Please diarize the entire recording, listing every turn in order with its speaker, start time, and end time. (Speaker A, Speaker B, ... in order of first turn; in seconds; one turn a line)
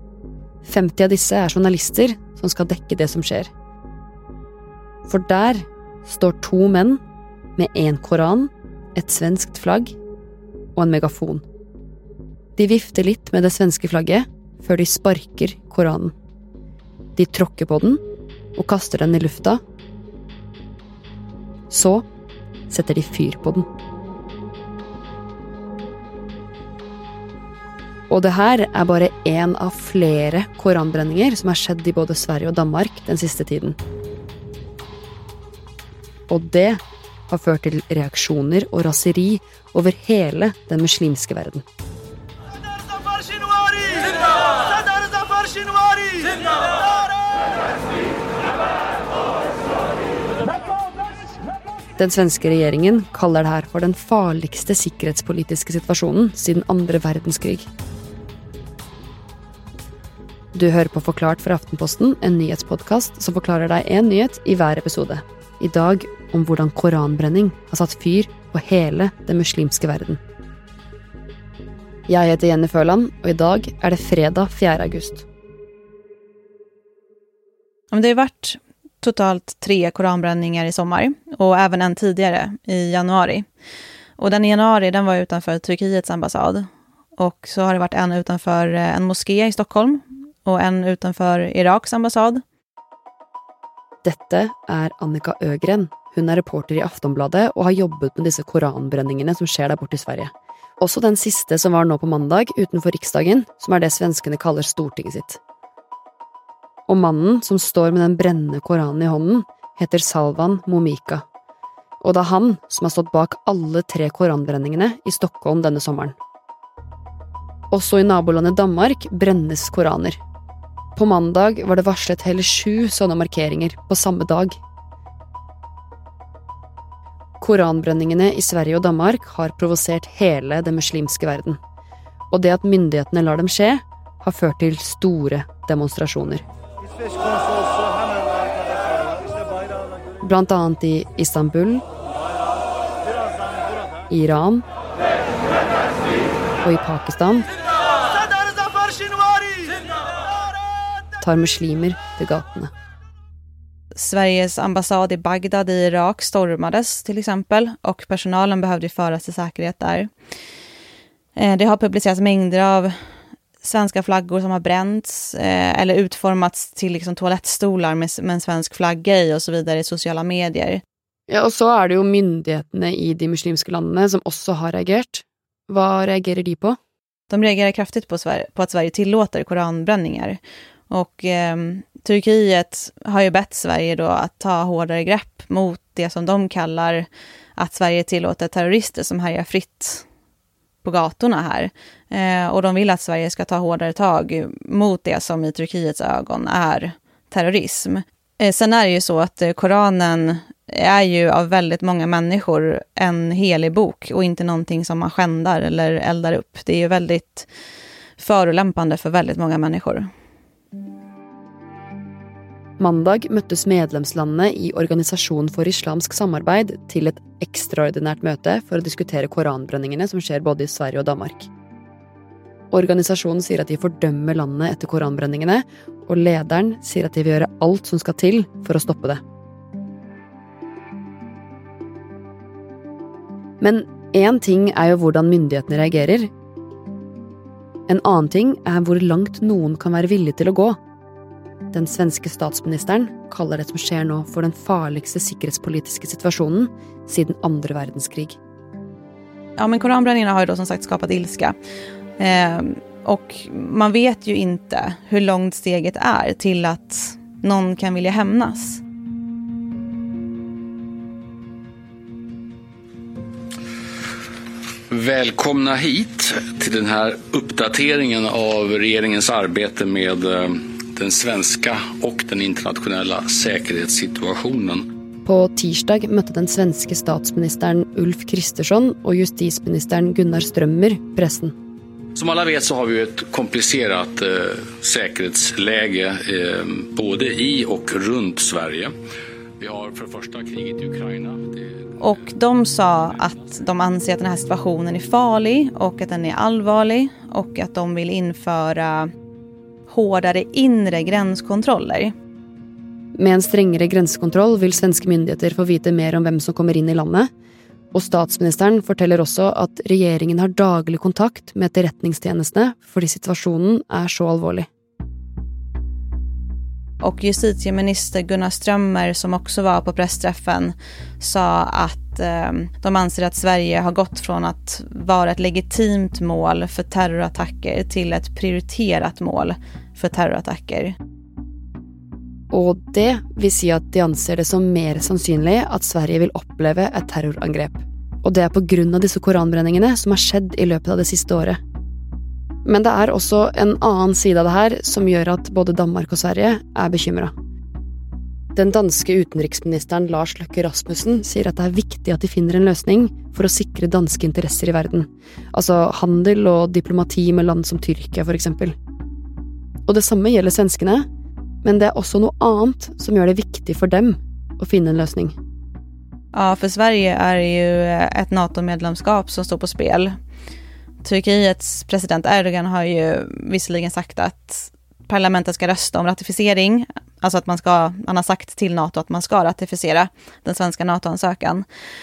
Speaker A: 0.6-3.5
Speaker A: 5.1-7.0
Speaker A: 7.6-10.0
Speaker A: 10.8-11.4
Speaker A: 12.6-16.1
Speaker A: 17.2-18.0
Speaker A: 18.6-19.6
Speaker A: 21.7-22.1
Speaker A: 22.7-23.7
Speaker A: 28.1-33.8
Speaker A: 36.3-41.6
Speaker A: 52.0-57.6
Speaker A: 60.5-70.2
Speaker A: 72.1-75.3
Speaker B: 77.9-83.5
Speaker B: 84.2-86.7
Speaker B: 87.2-92.4
Speaker A: 94.0-105.4
Speaker A: 106.9-111.2
Speaker A: 112.0-116.2
Speaker A: 117.7-120.2
Speaker A: 121.0-124.6
Speaker A: 127.4-131.6
Speaker A: 132.3-136.4
Speaker A: 140.2-141.8
Speaker A: 144.1-144.7
Speaker A: 146.6-147.5
Speaker A: 151.2-152.7
Speaker B: 154.0-160.1
Speaker B: 161.4-162.9
Speaker B: 163.6-170.8
Speaker A: 171.3-176.8
Speaker B: 177.3-180.4
Speaker B: 180.9-190.1
Speaker B: 190.8-207.5
Speaker B: 208.2-210.1
Speaker A: 212.8-221.5
Speaker A: 222.7-229.2
Speaker A: 233.6-236.3
Speaker A: 237.9-240.8
Speaker A: 241.7-248.4
Speaker B: 249.6-251.6
Speaker B: 252.2-258.8
Speaker C: 264.9-274.9
Speaker A: 275.2-281.5
Speaker C: 282.1-288.9
Speaker C: 289.6-292.2
Speaker B: 292.0-299.1
Speaker B: 299.9-302.1
Speaker A: 303.2-307.3
Speaker A: 307.9-314.7
Speaker B: 317.0-330.9
Speaker A: 332.5-341.6
Speaker A: 342.6-347.3
Speaker A: 348.6-358.7
Speaker A: 359.9-361.1
Speaker A: 361.6-365.4
Speaker B: 366.3-370.1
Speaker B: 371.0-381.6